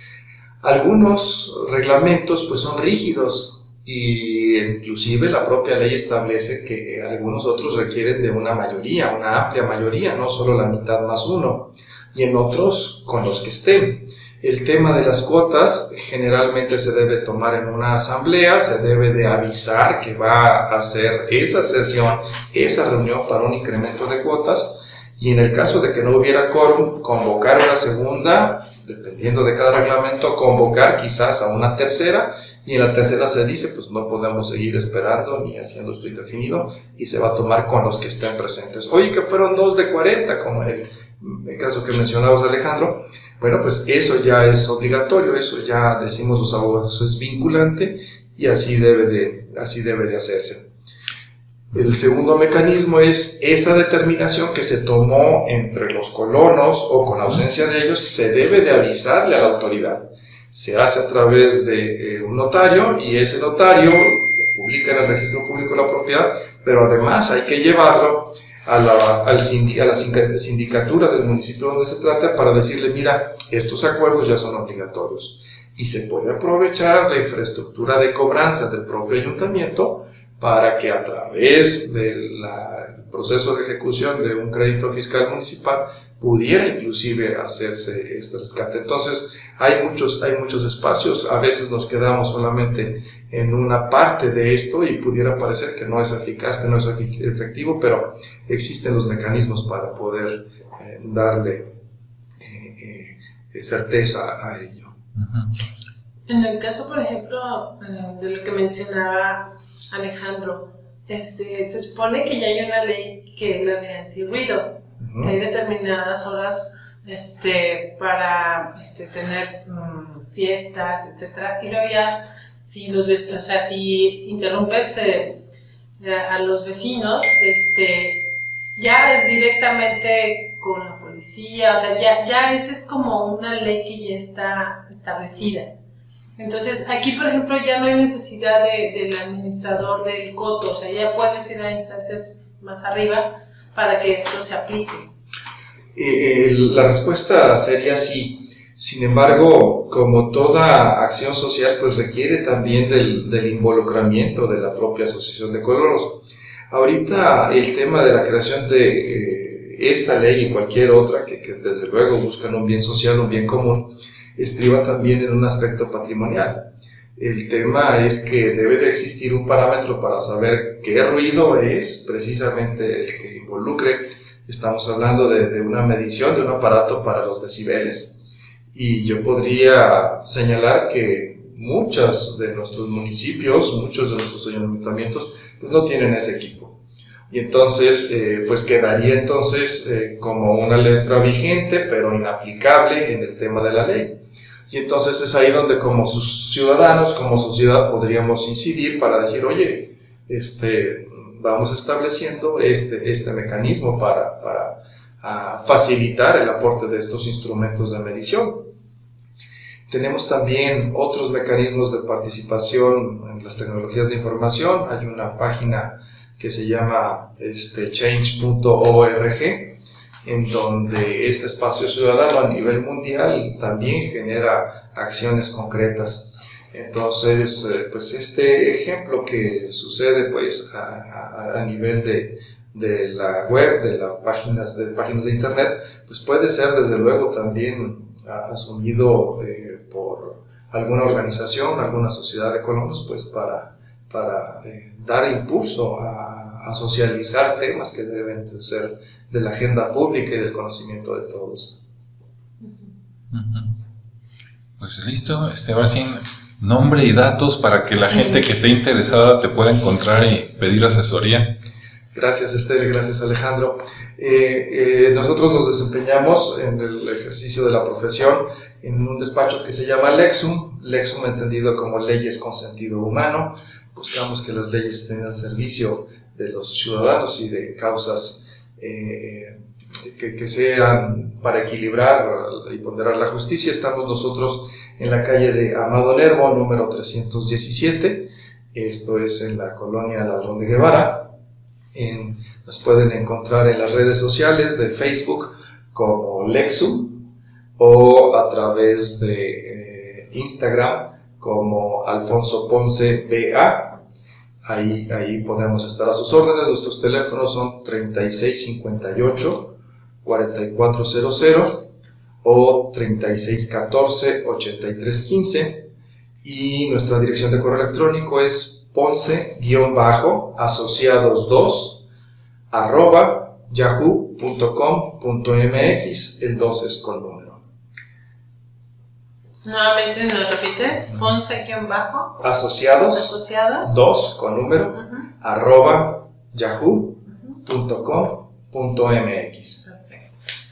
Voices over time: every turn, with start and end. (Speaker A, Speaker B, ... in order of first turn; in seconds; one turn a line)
Speaker A: 0.6-50.7
Speaker A: 51.7-101.7
Speaker A: 102.4-104.9
Speaker B: 105.2-105.5
Speaker C: 106.3-125.4
Speaker A: 115.0-115.3
Speaker C: 126.0-135.7
Speaker C: 136.4-145.1
Speaker A: 145.9-186.8
Speaker A: 187.3-208.7
Speaker A: 209.9-251.8
Speaker C: 252.6-252.9
Speaker B: 253.3-253.7
Speaker B: 254.8-261.5
Speaker C: 258.1-258.4
Speaker A: 262.1-291.3
Speaker A: 291.9-304.0
Speaker A: 304.6-311.9
Speaker A: 312.4-315.9
Speaker A: 316.4-322.0
Speaker A: 322.7-327.6
Speaker C: 329.6-332.4
Speaker A: 332.4-339.8
Speaker C: 333.1-333.9
Speaker C: 339.9-340.4